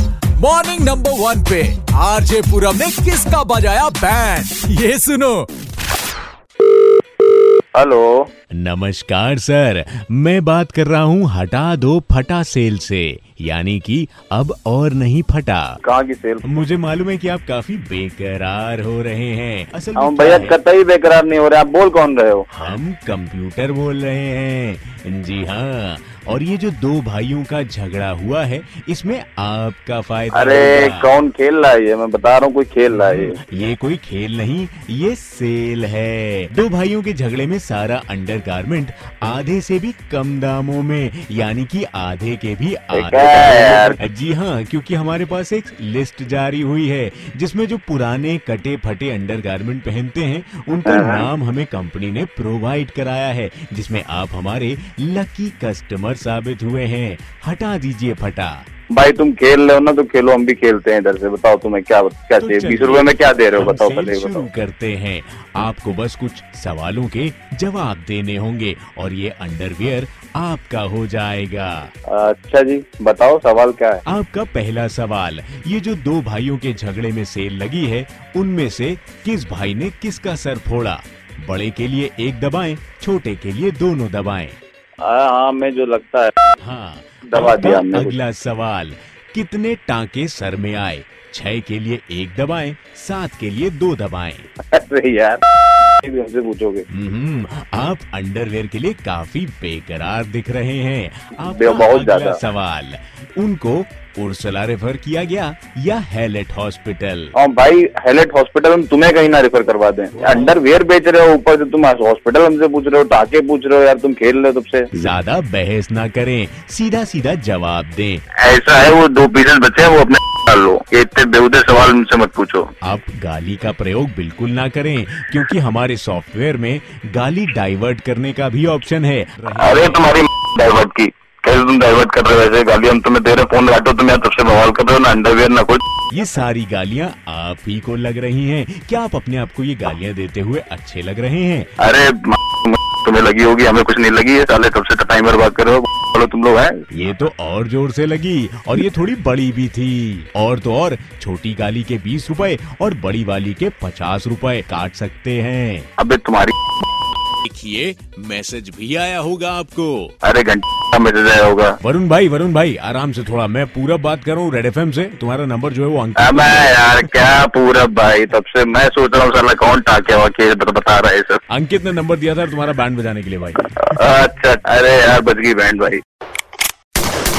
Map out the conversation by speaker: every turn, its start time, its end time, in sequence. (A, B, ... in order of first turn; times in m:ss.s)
0:00.4-0:05.5 A
0:07.8-0:08.3 B
0:08.5-0:15.8 C
0:15.8-0:16.4 B
0:16.4-0:20.6 C
0:20.0-0:22.5 B
0:22.5-0:31.1 C
0:30.3-0:33.4 B
0:32.9-0:58.6 C
0:42.9-0:44.0 B
0:50.8-0:51.2 B
0:58.9-1:04.5 B
1:02.4-1:11.9 C
1:12.1-1:14.0 B
1:14.1-1:24.6 C
1:25.0-1:26.3 B
1:26.6-1:34.5 C
1:27.3-1:28.2 B
1:34.7-1:35.4 B
1:36.0-1:36.8 B
1:36.9-1:47.3 C
1:41.4-1:42.4 B
1:47.3-1:54.9 B
1:50.1-1:50.6 C
1:54.9-1:58.2 C
1:58.4-2:02.7 B
2:02.8-2:10.1 C
2:09.6-2:15.8 B
2:16.1-2:21.7 C
2:21.8-2:26.8 B
2:26.9-2:35.9 C
2:36.0-2:36.6 B
2:37.4-2:40.2 C
2:40.2-2:41.8 B
2:41.8-2:47.0 C
2:46.2-2:51.4 B
2:51.5-2:53.6 C
2:53.8-2:56.0 B